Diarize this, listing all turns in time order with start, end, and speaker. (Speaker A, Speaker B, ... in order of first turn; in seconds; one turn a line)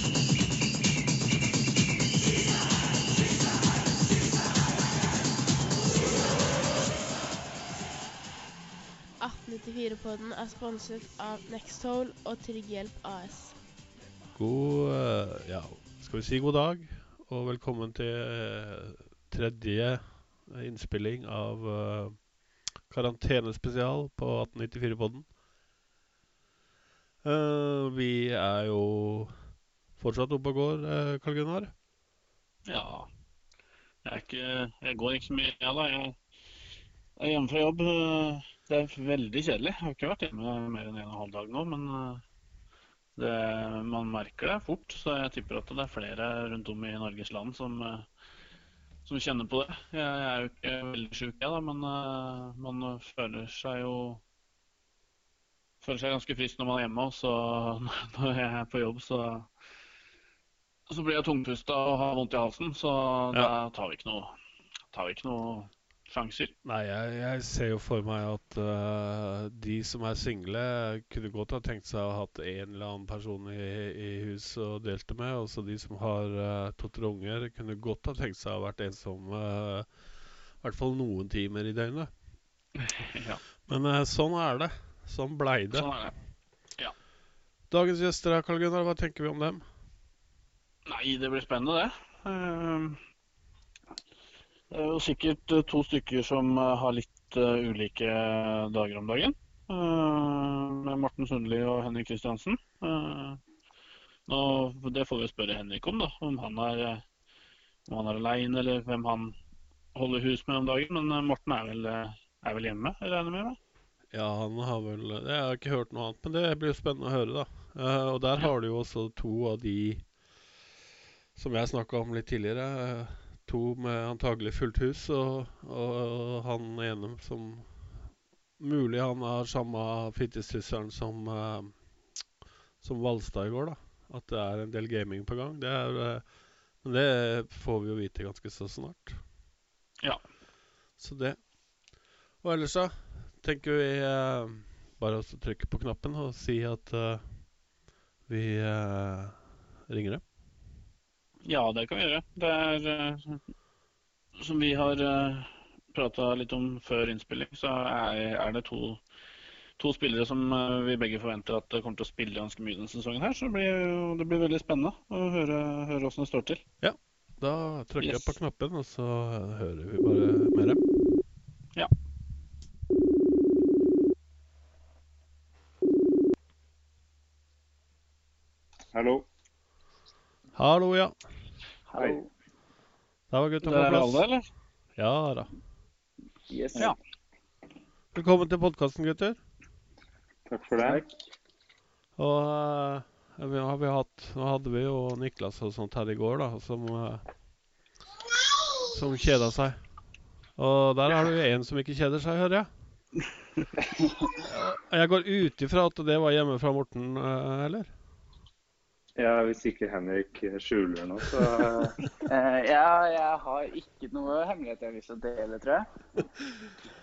Speaker A: 9.2-13.6
Speaker B: 14.3-22.2
Speaker B: 22.9-25.3
Speaker B: 27.2-29.3
Speaker B: 30.0-31.7
Speaker C: 32.7-33.1
Speaker C: 34.0-36.1
Speaker C: 37.2-42.2
Speaker C: 43.2-48.0
Speaker C: 49.0-54.2
Speaker C: 55.8-59.5
Speaker C: 60.9-64.3
Speaker C: 64.9-66.5
Speaker B: 66.6-79.9
Speaker B: 80.6-82.1
Speaker C: 82.9-83.4
Speaker B: 83.7-85.9
Speaker C: 85.7-86.1
Speaker B: 87.7-89.6
Speaker C: 90.8-93.0
Speaker C: 94.7-103.4
Speaker C: 104.3-107.0
Speaker C: 107.9-109.3
Speaker C: 109.9-113.6
Speaker B: 114.1-120.0
Speaker B: 121.3-127.7
Speaker B: 128.6-131.7
Speaker B: 132.8-136.2
Speaker B: 136.8-139.2
Speaker B: 141.0-141.4
Speaker B: 142.4-147.2
Speaker B: 148.3-150.2
Speaker C: 151.4-153.4
Speaker C: 154.4-159.0
Speaker C: 159.8-166.6
Speaker B: 166.8-170.8
Speaker C: 168.0-168.3
Speaker D: 178.9-179.2
Speaker B: 180.5-181.1
Speaker E: 181.9-182.3
Speaker B: 183.3-184.2
Speaker C: 183.6-184.4
Speaker B: 185.0-185.5
Speaker E: 186.5-186.9
Speaker B: 188.1-189.4
Speaker D: 190.5-191.0
Speaker E: 190.8-191.1
Speaker B: 192.2-197.2
Speaker B: 198.9-199.7
Speaker B: 200.6-202.7
Speaker B: 204.4-207.9
Speaker D: 209.2-212.0
Speaker E: 212.2-215.8